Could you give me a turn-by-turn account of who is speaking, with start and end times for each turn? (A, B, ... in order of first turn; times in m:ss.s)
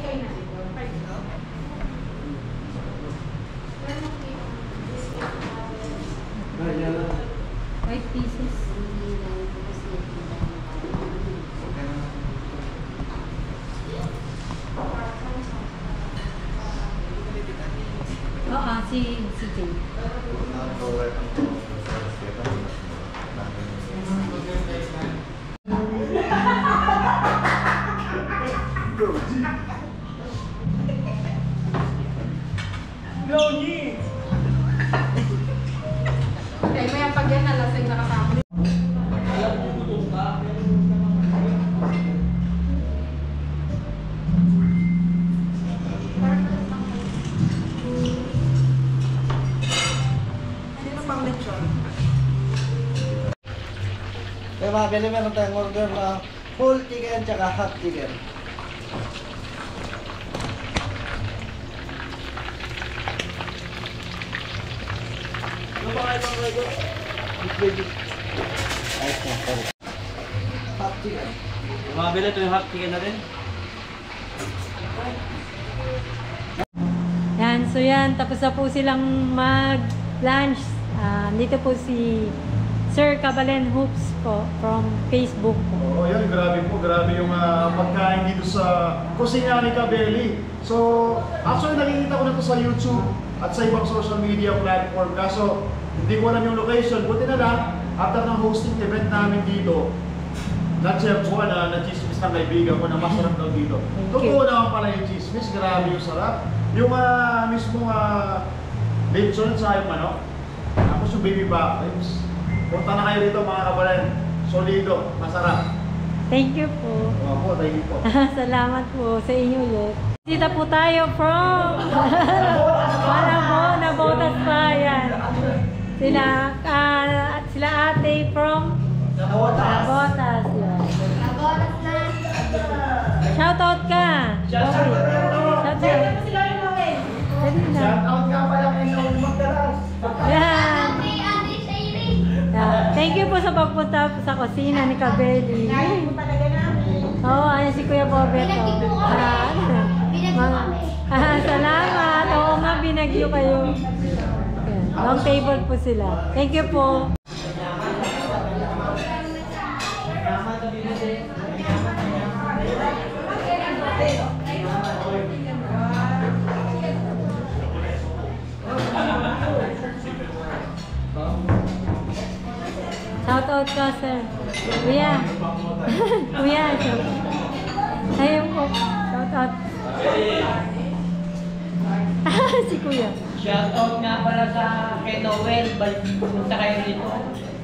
0:07.9-0:08.6 A
0:18.5-0:19.8 A
0:20.3-0:23.8 B
0:54.6-0:58.2 B
1:05.8-1:06.7 C
1:07.4-1:07.9 C
1:09.0-1:09.7 B
1:10.8-1:11.4 B
1:11.9-1:13.2 C
1:17.4-1:22.4 A
1:22.9-1:25.8 A
1:25.8-1:39.9 D
1:40.8-1:48.4 D
1:43.9-1:44.4 A
1:49.1-1:50.2 D
1:50.9-1:55.6 D
1:56.3-1:57.2 A
1:57.2-1:58.0 D
1:58.0-2:05.2 A
2:02.2-2:03.3 D
2:06.0-2:08.8 A
2:09.3-2:09.9 D
2:09.6-2:11.0 A
2:12.5-2:13.1 D
2:13.3-2:14.4 A
2:14.5-2:17.2 E
2:14.6-2:15.8 D
2:15.6-2:16.2 A
2:17.4-2:18.0 A
2:17.7-2:20.2 D
2:20.0-2:20.3 E
2:20.2-2:21.2 A
2:22.5-2:26.2 A
2:26.4-2:26.7 E
2:27.2-2:33.8 A
2:34.6-2:37.1 A
2:37.8-2:38.5 E
2:40.6-2:41.5 E
2:53.2-2:55.3 A
2:55.9-2:57.1 A
2:58.2-2:59.6 A
2:59.9-3:00.6 C
3:02.2-3:03.2 A
3:03.4-3:07.3 E